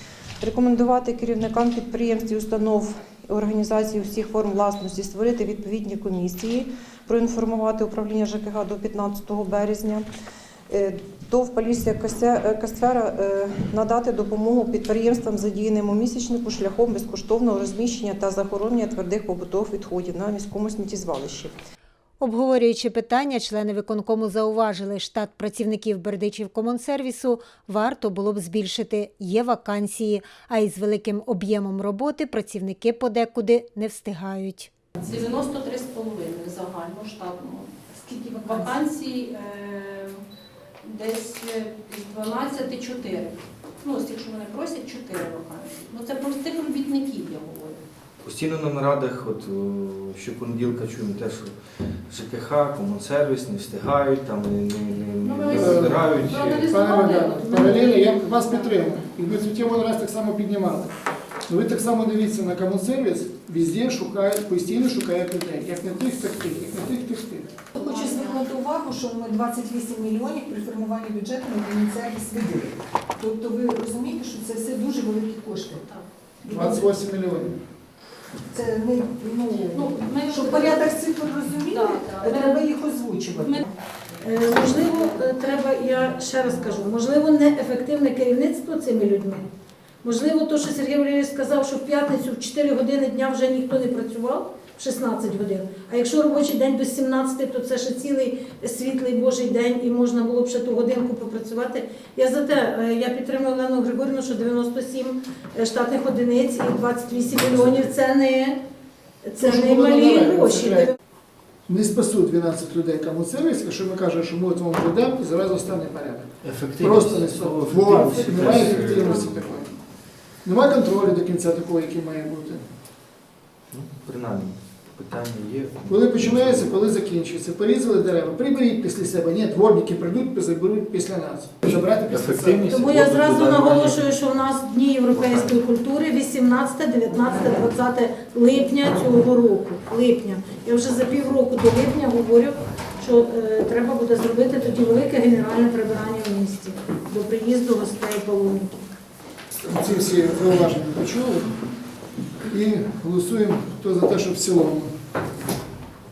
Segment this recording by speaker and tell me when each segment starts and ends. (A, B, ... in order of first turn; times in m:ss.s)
0:00.4-0:10.1 A
0:10.7-0:21.6 A
0:22.2-0:34.7 B
0:35.0-0:40.2 C
0:40.8-0:47.8 C
0:48.2-0:51.5 D
0:52.1-0:56.8 D
0:55.2-0:58.5 C
0:55.5-1:00.9 E
1:01.5-1:07.5 E
1:07.8-1:08.4 C
1:07.8-1:15.8 F
1:16.5-1:17.6 E
1:18.5-1:23.5 F
1:19.7-1:20.8 C
1:19.8-1:20.8 G
1:21.7-1:22.6 C
1:24.2-1:29.5 G
1:30.0-1:48.6 G
1:47.3-1:47.8 D
1:49.2-1:50.9 G
1:49.4-1:50.9 E
1:51.7-1:59.8 E
1:56.4-1:59.3 D
2:00.4-2:02.7 E
2:03.7-2:06.7 D
2:05.9-2:12.9 E
2:11.6-2:14.0 D
2:12.7-2:28.8 G
2:15.1-2:15.5 D
2:29.6-2:31.5 E
2:32.5-2:34.9 E